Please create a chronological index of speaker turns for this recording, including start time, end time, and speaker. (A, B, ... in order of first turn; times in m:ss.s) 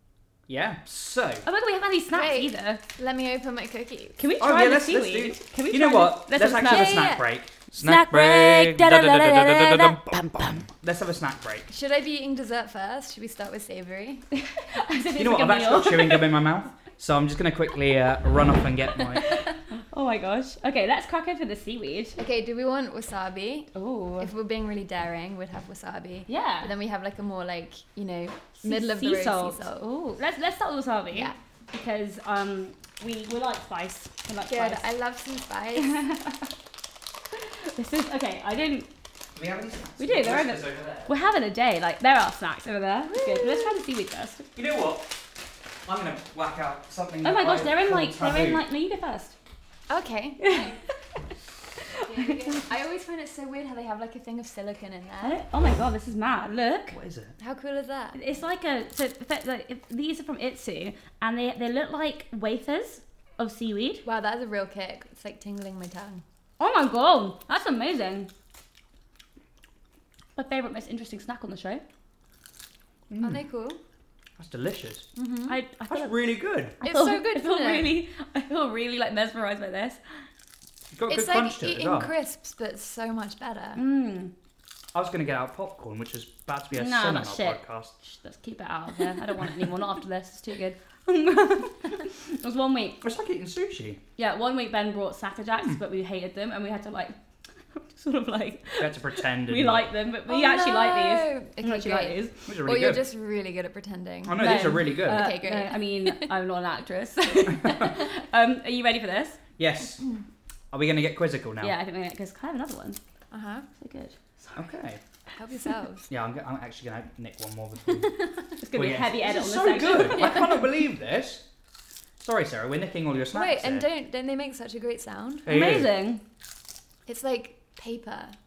0:00.5-0:01.4 A
0:01.4-0:02.8 B
0:02.1-0:04.2 C
0:04.2-0:07.1 B
0:04.4-0:11.7 A
0:06.6-0:07.3 C
0:07.7-0:10.6 B
0:11.7-0:14.2 C
0:14.3-0:16.4 B
0:15.2-0:19.3 A
0:19.7-0:22.2 B
0:22.2-0:29.9 C
0:23.7-0:24.3 B
0:26.3-0:26.7 B
0:28.6-0:34.8 B
0:34.5-0:36.0 C
0:35.8-0:36.5 B
0:37.3-0:38.9 B
0:39.3-0:41.1 A
0:40.0-0:44.5 B
0:43.1-0:43.8 C
0:44.6-0:45.2 A
0:45.8-0:48.6 A
0:47.2-0:49.4 B
0:49.9-0:50.8 C
0:50.4-0:50.8 B
0:51.8-0:52.6 B
0:51.9-0:55.4 C
0:55.2-0:57.0 B
0:56.9-0:57.3 A
0:57.4-0:58.2 C
0:58.1-1:04.0 B
1:04.0-1:06.2 C
1:06.6-1:08.3 B
1:10.4-1:11.8 B
1:13.1-1:13.4 A
1:13.2-1:13.8 C
1:14.4-1:15.1 A
1:15.2-1:15.6 C
1:15.5-1:20.2 B
1:15.9-1:16.8 A
1:16.8-1:17.9 C
1:20.9-1:22.1 A
1:21.1-1:23.8 C
1:23.8-1:24.3 B
1:24.9-1:27.9 A
1:26.7-1:33.0 B
1:33.0-1:34.0 A
1:34.2-1:37.2 B
1:37.7-1:42.4 B
1:38.8-1:39.9 A
1:40.3-1:46.3 C
1:42.5-1:43.0 A
1:44.2-1:45.3 A
1:44.4-1:49.4 B
1:47.5-1:47.9 A
1:49.6-1:50.0 A
1:50.7-1:51.7 A
1:51.6-1:53.0 B
1:53.3-1:53.7 C
1:53.8-1:54.6 B
1:54.5-1:55.0 A
1:55.4-1:56.1 C
1:56.1-1:58.2 A
1:58.6-2:00.6 B
1:58.7-2:01.4 A
2:02.2-2:03.9 A
2:03.3-2:05.5 C
2:05.4-2:05.9 A
2:05.5-2:06.2 B
2:07.0-2:08.4 C